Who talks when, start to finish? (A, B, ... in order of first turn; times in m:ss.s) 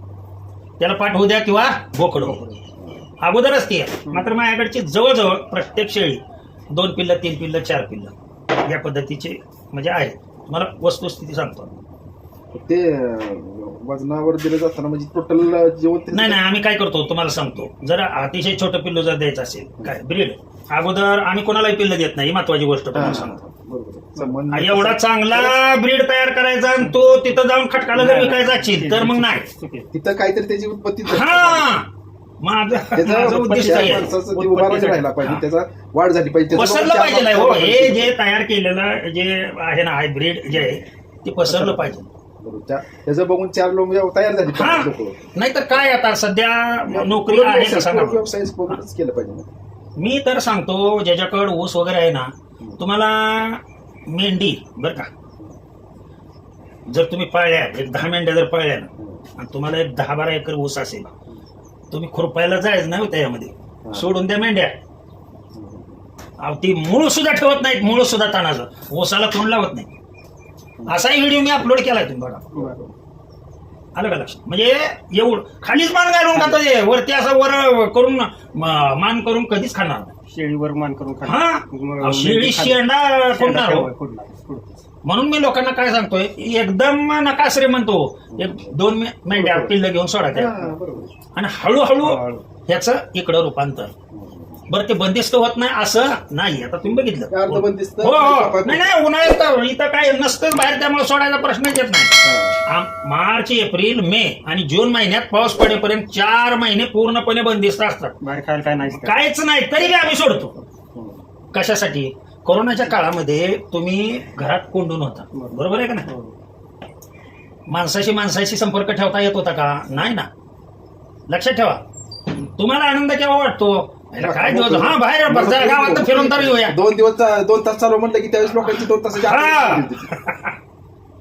0:00.8-0:02.4 A
0:02.2-0:02.6 B
0:02.7-0:03.1 C
0:03.2-0:06.2 A
0:04.0-0:04.3 B
0:06.7-0:11.8 A
0:12.5-0:16.4 C
0:16.1-0:23.3 A
0:22.9-0:25.6 C
0:24.5-0:29.5 A
0:27.9-0:29.9 B
0:29.9-0:31.8 C
0:31.0-0:31.9 A
0:32.4-0:35.4 A
0:32.9-0:38.2 C
0:33.5-0:34.7 B
0:36.5-0:42.1 A
0:41.4-0:45.2 C
0:44.5-0:48.7 A
0:46.9-0:49.5 C
0:50.0-0:55.1 A
0:56.9-1:01.1 A
0:59.0-0:59.2 C
1:01.9-1:04.7 A
1:05.5-1:06.0 C
1:06.4-1:09.9 A
1:10.8-1:12.5 A
1:12.5-1:12.9 C
1:13.9-1:20.1 A
1:16.3-1:16.6 B
1:20.3-1:24.8 B
1:21.2-1:23.9 A
1:25.0-1:30.6 A
1:28.3-1:28.8 C
1:29.3-1:29.7 C
1:30.3-1:31.1 C
1:31.3-1:33.9 A
1:32.0-1:32.4 B
1:34.1-1:34.6 C
1:34.7-1:48.2 A
1:37.3-1:38.9 C
1:42.2-1:42.6 C
1:48.2-1:49.2 B
1:48.9-1:50.5 A
1:50.9-1:51.2 C
1:51.5-1:56.1 A
1:55.3-1:56.3 B
1:57.7-2:00.3 A
2:01.3-2:06.8 A
2:04.2-2:10.1 C
2:08.6-2:10.6 A